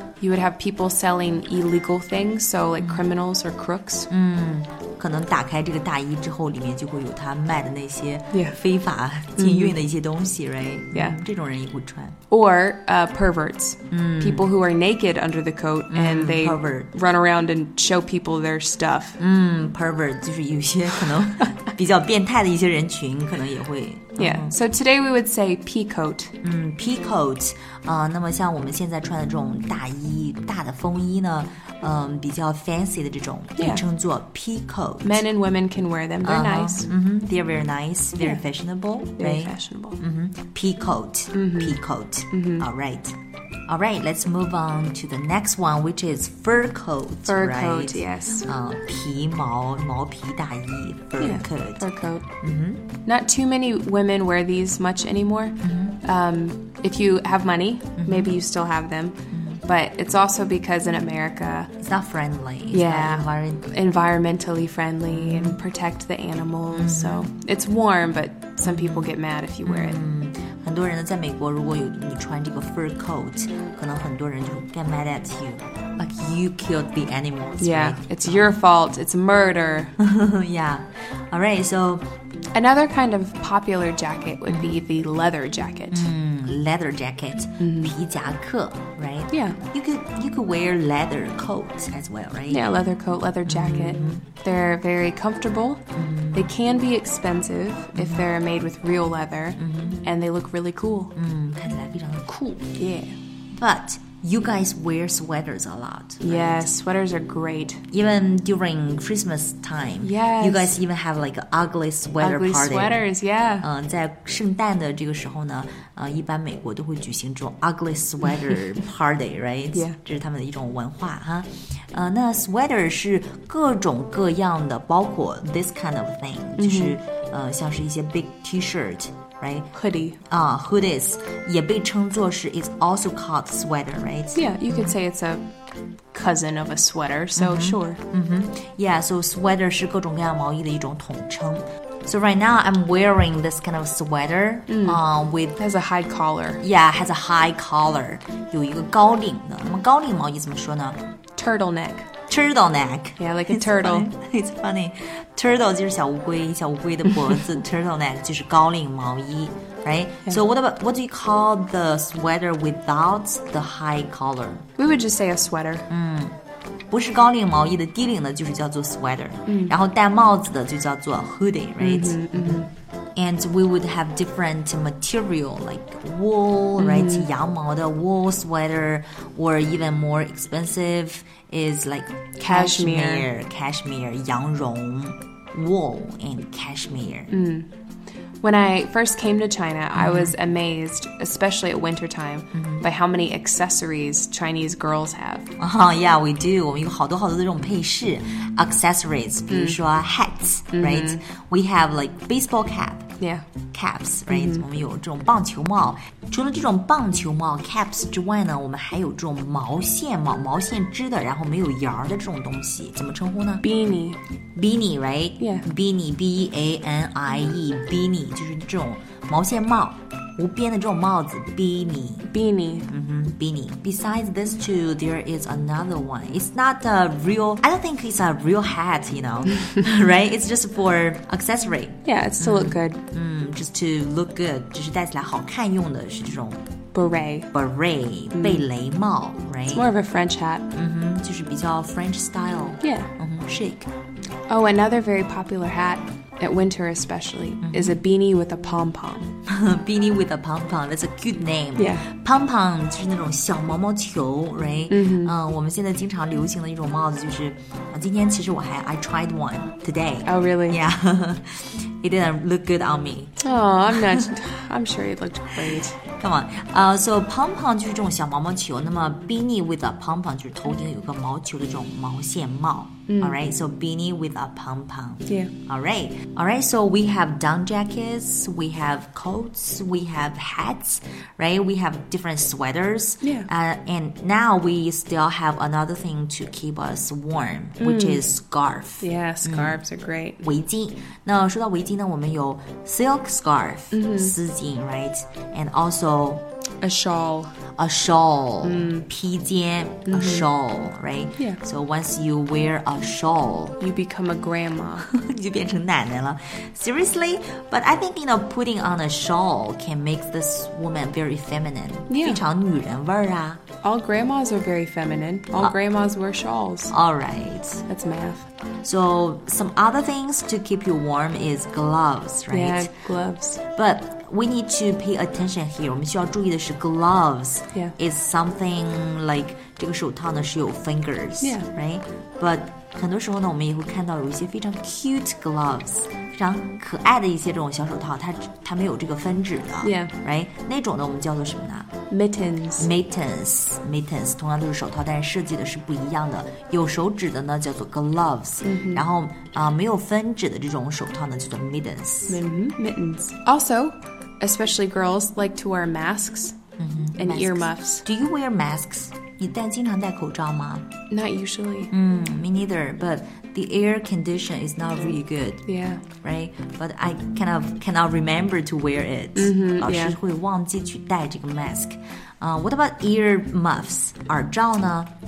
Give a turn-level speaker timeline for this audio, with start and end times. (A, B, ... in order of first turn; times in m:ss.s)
0:00.2-0:04.1 A
0:02.8-0:03.1 B
0:04.1-0:12.2 B
0:08.3-0:08.6 A
0:09.4-0:09.8 A
0:12.3-0:19.2 A
0:13.9-0:14.5 B
0:15.9-0:16.9 B
0:19.2-0:24.6 B
0:24.2-0:26.3 A
0:26.4-0:35.2 B
0:33.6-0:33.8 A
0:35.0-0:36.9 A
0:36.2-0:43.2 B
0:39.2-0:40.0 A
0:41.3-0:41.8 A
0:42.3-0:42.7 A
0:43.7-0:51.9 B
0:47.2-0:48.5 A
0:51.2-0:52.3 A
0:52.4-0:52.9 B
0:53.0-1:01.7 A
0:55.6-0:56.0 B
0:58.0-0:58.4 B
0:59.3-0:59.6 B
1:01.8-1:03.6 B
1:02.7-1:10.0 A
1:05.1-1:05.6 B
1:06.7-1:07.3 B
1:08.6-1:09.1 B
1:09.6-1:18.6 B
1:17.6-1:20.0 A
1:20.0-1:22.1 B
1:22.6-1:26.1 A
1:25.9-1:32.7 B
1:27.6-1:27.9 A
1:29.3-1:29.6 A
1:32.5-1:41.1 A
1:33.4-1:34.2 B
1:35.9-1:36.5 B
1:38.0-1:38.3 B
1:39.6-1:40.0 B
1:41.2-1:42.7 B
1:42.8-1:43.2 A
1:43.6-1:46.7 B
1:46.2-1:47.8 A
1:47.9-1:53.1 B
1:50.0-1:50.8 A
1:52.2-1:53.7 A
1:53.6-2:09.7 B
2:06.6-2:07.0 A
2:09.7-2:10.2 A
2:10.3-2:15.0 B
2:14.3-2:15.5 A
2:16.1-2:18.0 A
2:17.4-2:25.6 B
2:24.7-2:25.0 A
2:25.6-2:26.6 A
2:26.6-2:31.0 B
2:31.4-2:32.1 A
2:32.3-2:44.6 B
2:33.2-2:34.1 A
2:44.8-2:45.9 A
2:45.9-2:46.4 B
2:46.9-3:07.3 B
2:49.5-2:49.7 A
2:51.8-2:52.7 A
2:56.8-2:57.3 A
3:02.4-3:03.3 A
3:07.3-3:07.7 A
3:08.4-3:15.5 A
3:10.0-3:10.3 B
3:12.5-3:12.8 B
3:15.6-3:23.1 B
3:19.5-3:19.8 A
3:20.7-3:21.2 A
3:23.2-3:23.4 A
3:23.7-3:33.6 B
3:24.3-3:24.7 A
3:33.6-3:34.2 A
3:34.6-3:42.3 B
3:35.4-3:35.7 A
3:42.3-3:42.9 A
3:42.9-3:56.6 B
3:52.0-3:53.0 A
3:56.9-3:57.5 A
3:57.5-3:59.9 B
3:58.3-3:58.7 A
3:59.7-4:00.7 A
4:00.7-4:03.9 B
4:02.8-4:03.1 A
4:04.5-4:09.3 A
4:07.6-4:08.0 B
4:09.5-4:23.4 B
4:11.8-4:12.1 A
4:14.9-4:15.3 A
4:20.2-4:20.8 A
4:23.4-4:26.0 A
4:24.0-4:24.2 B
4:26.0-4:49.8 B
4:33.1-4:33.4 A
4:35.3-4:35.5 A
4:43.2-4:43.5 A
4:47.8-4:48.2 A
4:49.0-4:50.4 A
4:50.4-4:56.4 B
4:53.9-4:54.3 A
4:56.8-4:57.6 A
4:57.8-5:03.8 B
4:58.6-4:59.1 A
5:00.1-5:00.5 A
5:03.8-5:05.1 A
5:05.0-5:13.6 B
5:12.1-5:12.4 A
5:13.8-5:16.9 A
5:16.9-5:17.8 B
5:17.9-5:18.4 A
5:18.8-5:22.9 B
5:22.5-5:23.6 A
5:23.8-5:41.9 B
5:31.4-5:31.7 A
5:39.8-5:40.1 A
5:42.1-5:42.9 A
5:42.8-5:52.4 B
5:48.6-5:49.1 A
5:52.3-5:56.6 A
5:56.8-6:00.9 B
5:57.2-5:58.0 A
6:01.1-6:01.9 A
6:01.9-6:15.1 B
6:05.6-6:06.0 A
6:09.4-6:10.2 A